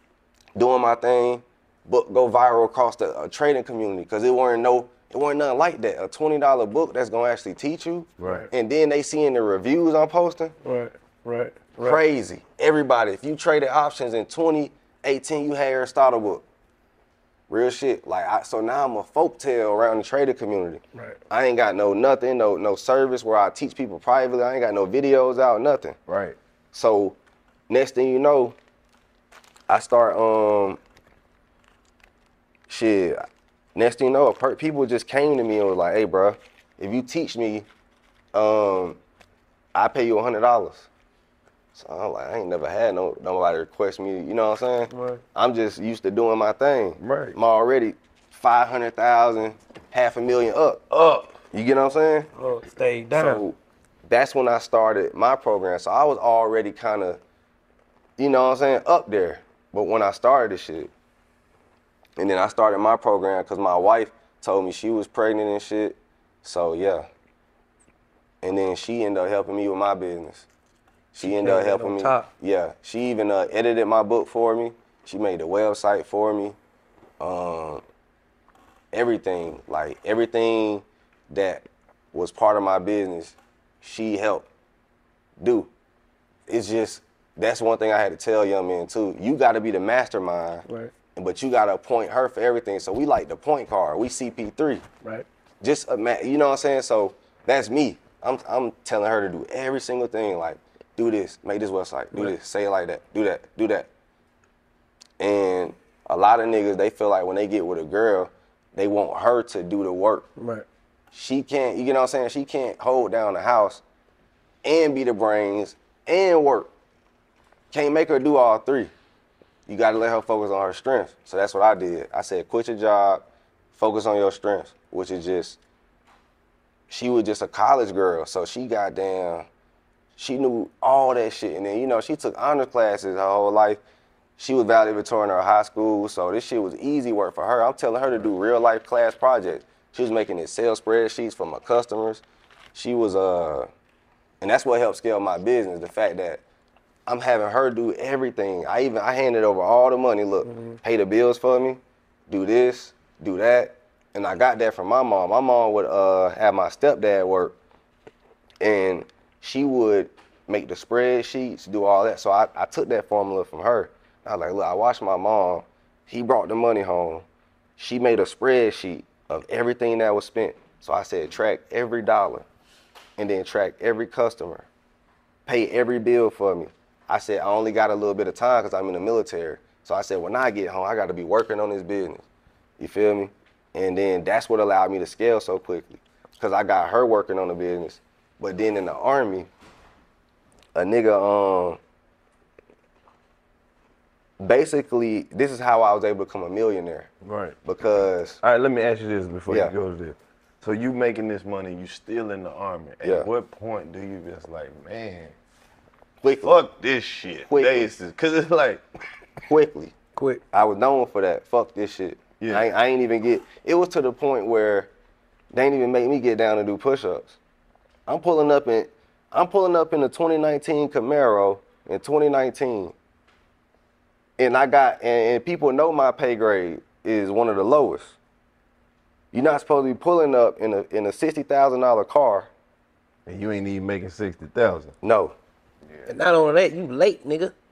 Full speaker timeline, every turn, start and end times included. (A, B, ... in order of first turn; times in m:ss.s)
0:00.6-0:10.5 A
0:08.2-0:08.5 B
0:10.6-0:12.0 C
0:11.8-0:16.4 A
0:17.5-0:26.0 A
0:26.1-0:26.4 B
0:26.7-0:27.2 A
0:27.7-0:28.6 A
0:29.7-0:30.8 A
0:32.7-0:33.2 A
0:33.8-0:37.7 A
0:38.3-0:39.0 A
0:39.8-0:40.9 A
0:41.8-0:50.9 A
0:44.9-0:45.2 C
0:47.0-0:47.4 B
0:51.0-0:51.3 B
0:51.5-0:52.3 A
0:52.4-0:53.4 C
0:53.2-0:53.6 A
0:54.1-0:57.2 A
0:58.2-1:00.9 A
1:02.2-1:07.1 A
1:08.4-1:10.5 A
1:11.1-1:16.6 A
1:11.2-1:12.3 C
1:17.2-1:17.8 A
1:18.9-1:24.5 A
1:25.4-1:25.7 A
1:26.5-1:30.6 A
1:31.2-1:34.8 A
1:35.6-1:43.9 A
1:45.2-1:50.3 A
1:50.4-1:50.6 C
1:51.1-1:53.8 A
1:54.6-1:56.7 A
1:57.7-1:58.9 A
1:59.7-2:03.2 A
2:03.8-2:05.6 A
2:06.9-2:09.5 A
2:10.2-2:13.8 A
2:14.4-2:22.2 A
2:22.8-2:23.7 A
2:24.4-2:26.4 A
2:27.1-2:37.6 A
2:30.5-2:30.8 C
2:38.6-2:47.2 A
2:47.8-2:52.4 A
2:53.2-2:54.7 A
2:55.5-3:02.2 A
3:02.8-3:09.5 A
3:10.8-3:11.8 A
3:14.4-3:17.1 A
3:17.2-3:17.6 B
3:17.6-3:18.4 A
3:18.4-3:25.3 B
3:23.0-3:23.3 A
3:26.2-3:26.6 A
3:26.4-3:28.8 B
3:27.5-3:27.9 A
3:29.5-3:29.9 A
3:30.5-3:34.9 A
3:32.4-3:32.7 B
3:35.5-3:37.4 A
3:38.1-3:42.9 A
3:44.4-3:48.2 A
3:49.3-3:52.5 A
3:53.3-3:55.0 B
3:55.0-3:55.3 A
3:56.1-3:57.5 C